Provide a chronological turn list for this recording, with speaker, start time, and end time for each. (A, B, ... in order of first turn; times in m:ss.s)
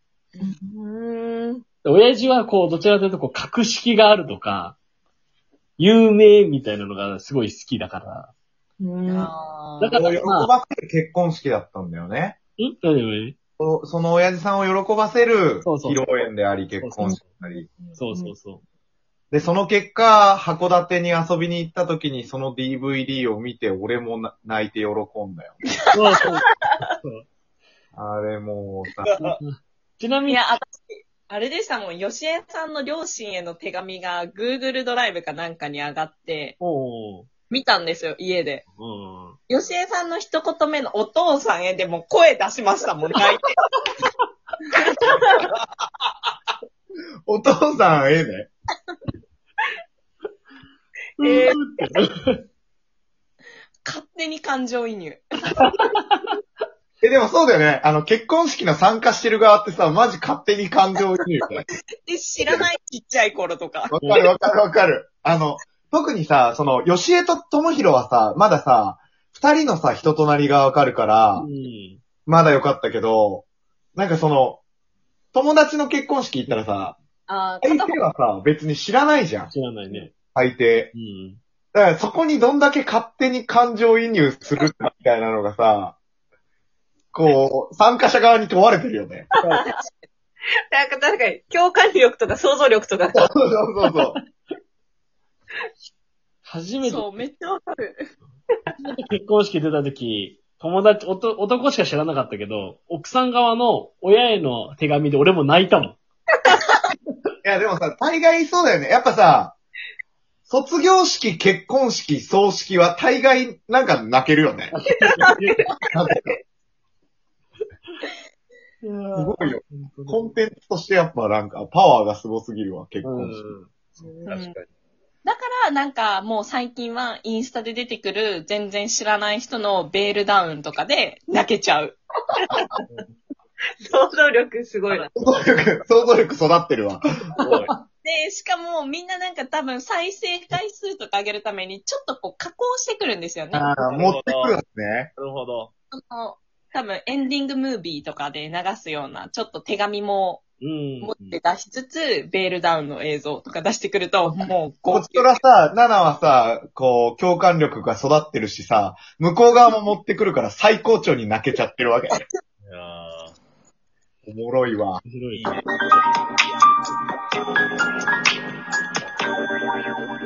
0:00.4-0:01.6 A
0:01.8-0:04.8 B
0:05.8-0:08.3 B
0:08.8-0:09.3 A
0:09.1-0:10.0 C
0:09.8-0:10.5 B
0:09.9-0:12.4 D
0:12.6-0:13.4 B
0:13.6-0:17.7 D
0:15.6-0:16.2 B
0:16.8-0:17.2 B
0:17.7-0:18.3 A
0:18.0-0:18.6 B
0:19.3-0:25.5 D
0:25.9-0:26.5 B
0:27.9-0:29.2 D
0:29.2-0:30.5 B
0:30.2-0:36.6 C
0:36.6-0:37.3 B
0:37.5-0:38.6 C
0:38.8-0:39.4 B
0:39.5-0:43.6 C
0:44.8-0:45.2 C
0:47.3-0:48.5 D
0:51.2-0:52.4 B
0:51.2-0:51.5 A
0:53.8-0:55.2 C
0:55.6-0:56.4 B
0:57.0-1:01.6 D
1:02.0-1:04.0 C
1:02.4-1:02.7 D
1:03.9-1:11.5 D
1:11.4-1:12.0 B
1:12.2-1:14.6 D
1:15.3-1:17.0 D
1:17.3-1:18.0 C
1:17.6-1:19.5 D
1:19.5-1:20.1 B
1:20.4-1:20.9 D
1:20.9-1:21.4 B
1:21.7-1:26.0 D
1:27.1-1:29.3 D
1:30.7-1:33.2 A
1:33.1-1:34.2 D
1:36.5-1:37.2 B
1:36.8-1:38.0 C
1:38.8-1:46.0 B
1:47.4-1:49.6 D
1:50.5-1:54.8 D
1:54.7-1:55.7 B
1:55.9-1:56.4 D
1:58.8-2:00.4 B
1:59.1-2:03.4 D
2:03.0-2:04.0 B
2:04.0-2:04.3 A
2:04.3-2:04.5 C
2:04.3-2:04.6 E
2:05.2-2:12.0 C
2:12.5-2:12.8 A
2:13.8-2:15.1 A
2:15.1-2:17.0 D
2:17.4-2:17.8 B
2:17.4-2:17.7 E
2:18.0-2:23.7 C
2:23.5-2:25.1 D
2:23.9-2:24.6 E
2:25.2-2:25.7 E
2:25.9-2:30.4 C
2:30.6-2:31.4 B
2:31.0-2:35.3 C
2:34.2-2:42.2 D
2:42.6-2:43.4 E
2:44.2-2:45.0 D
2:45.0-2:45.5 B
2:45.3-2:45.8 E